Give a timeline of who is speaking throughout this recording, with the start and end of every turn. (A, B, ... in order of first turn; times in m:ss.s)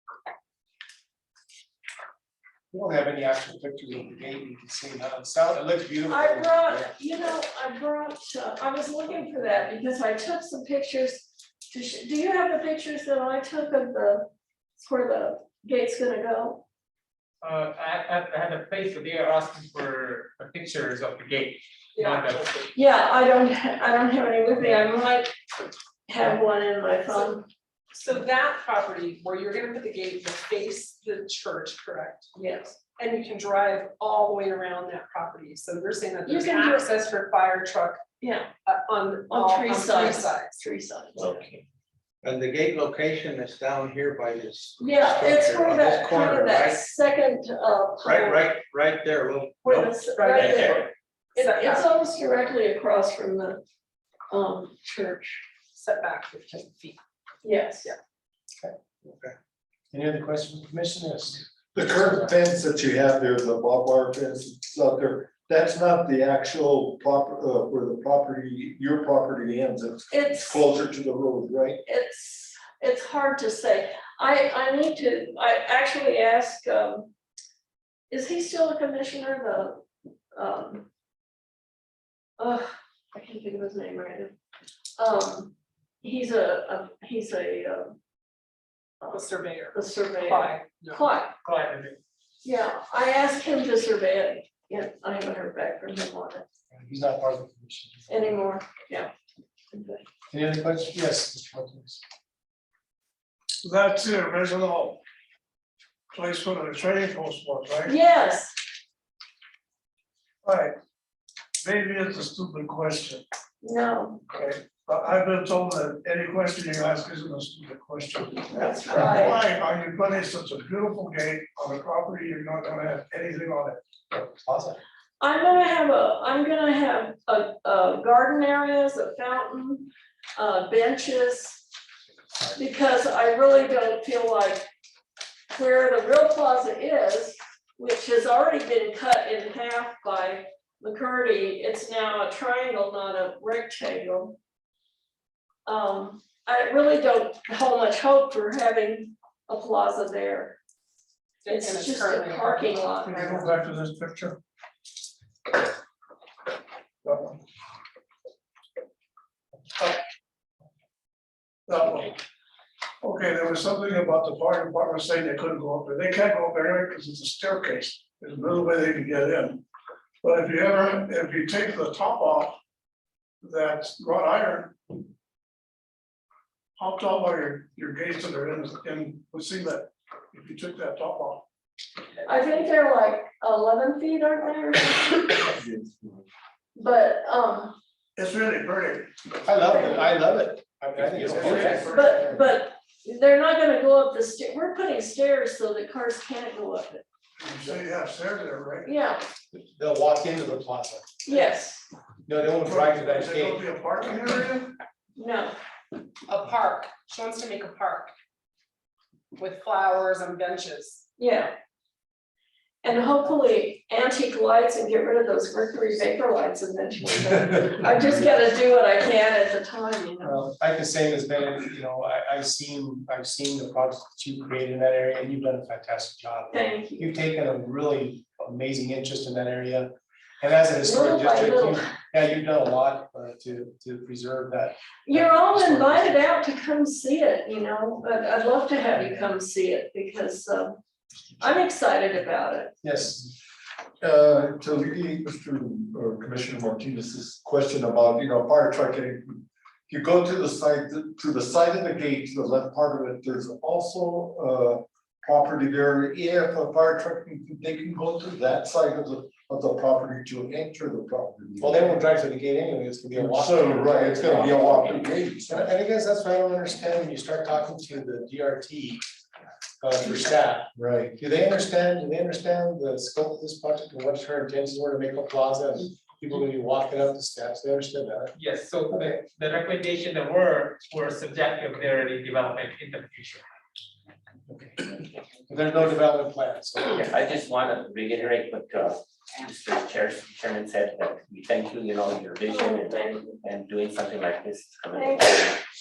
0:02.7-0:06.9 A
0:06.1-0:16.6 B
0:17.4-0:22.6 C
0:22.0-0:22.5 D
0:22.7-0:25.3 B
0:26.1-0:27.5 B
0:27.9-0:38.0 D
0:32.3-0:32.8 B
0:36.2-0:36.8 B
0:38.2-0:38.5 B
0:38.6-0:40.6 D
0:39.3-0:41.3 B
0:41.2-0:41.6 E
0:44.2-0:46.7 F
0:44.8-0:48.5 B
0:48.0-0:48.4 F
0:49.6-0:53.6 B
0:50.1-0:50.5 D
0:50.4-0:50.8 E
0:51.4-0:51.9 D
0:54.3-0:55.4 B
0:55.7-0:57.0 D
0:57.4-0:57.9 B
0:59.9-1:02.3 A
1:01.7-1:11.8 G
1:10.1-1:10.6 B
1:11.8-1:17.1 B
1:18.1-1:20.9 B
1:22.4-1:24.3 B
1:25.0-1:28.0 B
1:29.0-1:31.3 B
1:29.1-1:31.0 D
1:31.4-1:32.0 C
1:32.4-1:36.4 B
1:36.7-1:38.4 A
1:38.1-1:39.1 B
1:39.7-1:40.0 B
1:40.3-1:42.0 A
1:43.6-1:45.0 H
1:46.1-1:47.9 H
1:47.8-1:48.6 B
1:50.4-1:50.7 H
1:51.6-1:53.2 H
1:53.6-1:54.2 B
1:54.3-2:03.8 H
1:58.5-1:59.4 B
2:04.1-2:04.8 A
2:05.2-2:11.6 B
2:12.5-2:14.7 B
2:15.5-2:24.4 B
2:25.6-2:30.6 B
2:31.4-2:33.5 D
2:31.5-2:33.4 B
2:33.0-2:34.4 H
2:37.0-2:37.4 H
2:41.7-2:42.2 H
2:43.0-2:49.6 H
2:50.2-2:52.6 H
2:53.4-2:54.8 H
2:56.8-3:01.4 H
3:02.2-3:05.6 B
3:06.7-3:07.8 B
3:08.2-3:09.1 H
3:09.4-3:12.4 A
3:09.6-3:10.1 B
3:11.2-3:12.2 G
3:11.5-3:11.8 E
3:11.9-3:17.0 B
3:17.4-3:18.9 H
3:18.8-3:19.2 B
3:19.5-3:21.1 A
3:21.2-3:21.9 B
3:22.3-3:23.7 A
3:22.4-3:24.8 H
3:25.2-3:25.5 B
3:26.3-3:28.1 D
3:29.3-3:31.0 D
3:31.2-3:31.5 B
3:32.8-3:40.4 B
3:40.2-3:49.9 A
3:46.5-3:47.1 B
3:50.4-3:56.2 A
3:50.8-3:51.9 B
3:55.1-4:00.8 B
4:01.4-4:02.7 B
4:02.8-4:03.3 A
4:04.0-4:22.0 G
4:21.6-4:29.0 A
4:23.1-4:25.7 G
4:29.8-4:38.3 A
4:30.8-4:31.1 G
4:38.4-4:43.4 C
4:45.5-4:47.1 A
4:47.0-4:55.6 E
4:52.5-4:53.4 B
4:54.9-4:55.3 B